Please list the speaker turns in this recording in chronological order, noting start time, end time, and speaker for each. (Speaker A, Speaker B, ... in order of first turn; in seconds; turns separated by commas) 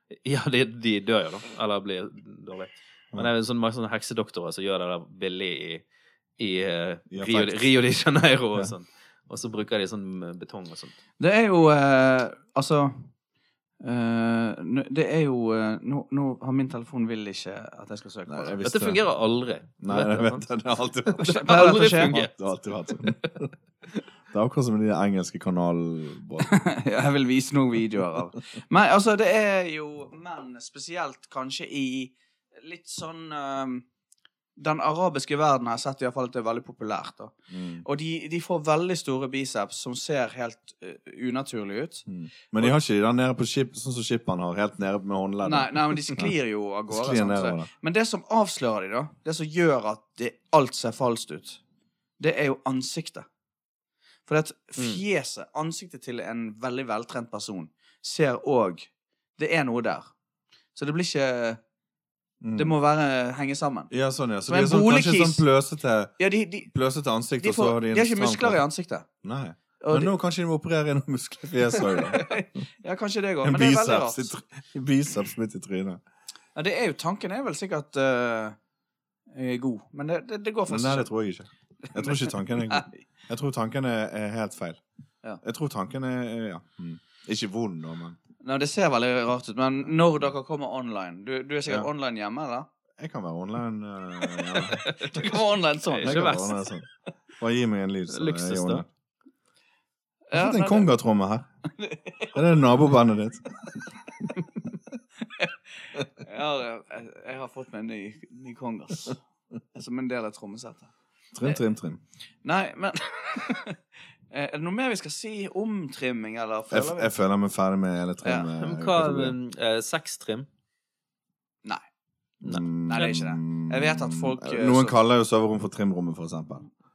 Speaker A: 0.2-5.8, Speaker A: 6.4-11.0, Speaker B: 7.1-7.7, Speaker C: 11.2-13.1, Speaker C: 13.8-18.6, Speaker B: 18.3-19.0, Speaker A: 18.6-20.5, Speaker B: 19.8-23.5, Speaker A: 21.1-23.1, Speaker C: 21.2-22.2, Speaker B: 24.3-26.5, Speaker C: 26.4-33.8, Speaker C: 34.6-42.0, Speaker B: 37.5-37.8, Speaker B: 42.1-46.3, Speaker C: 45.4-51.6, Speaker B: 46.9-47.7, Speaker C: 52.2-53.3, Speaker C: 54.3-60.1, Speaker A: 54.8-55.0, Speaker C: 60.7-61.6, Speaker B: 62.4-62.7, Speaker C: 62.5-63.9, Speaker B: 63.9-66.1, Speaker C: 64.5-65.4, Speaker C: 66.2-66.7, Speaker B: 66.7-68.6, Speaker C: 67.4-69.1, Speaker B: 69.2-72.3, Speaker C: 69.8-70.1, Speaker C: 71.9-74.3, Speaker B: 73.4-76.0, Speaker C: 76.5-78.6, Speaker C: 79.3-81.1, Speaker B: 80.7-84.8, Speaker C: 81.9-83.0, Speaker B: 85.4-88.2, Speaker C: 88.4-92.7, Speaker B: 93.0-94.9, Speaker C: 94.4-96.5, Speaker A: 95.0-95.2, Speaker A: 95.9-96.8, Speaker B: 96.0-96.8, Speaker B: 97.4-98.8, Speaker A: 98.1-98.8, Speaker C: 100.3-100.9, Speaker B: 100.3-101.5, Speaker C: 101.8-102.4, Speaker B: 102.3-103.5, Speaker C: 105.2-109.2, Speaker C: 109.7-110.9, Speaker B: 111.3-112.0, Speaker C: 112.4-113.8, Speaker C: 114.3-117.1, Speaker B: 116.7-119.3, Speaker C: 118.2-118.5, Speaker A: 118.5-120.5, Speaker A: 122.4-123.1, Speaker B: 122.4-126.7, Speaker C: 122.9-125.0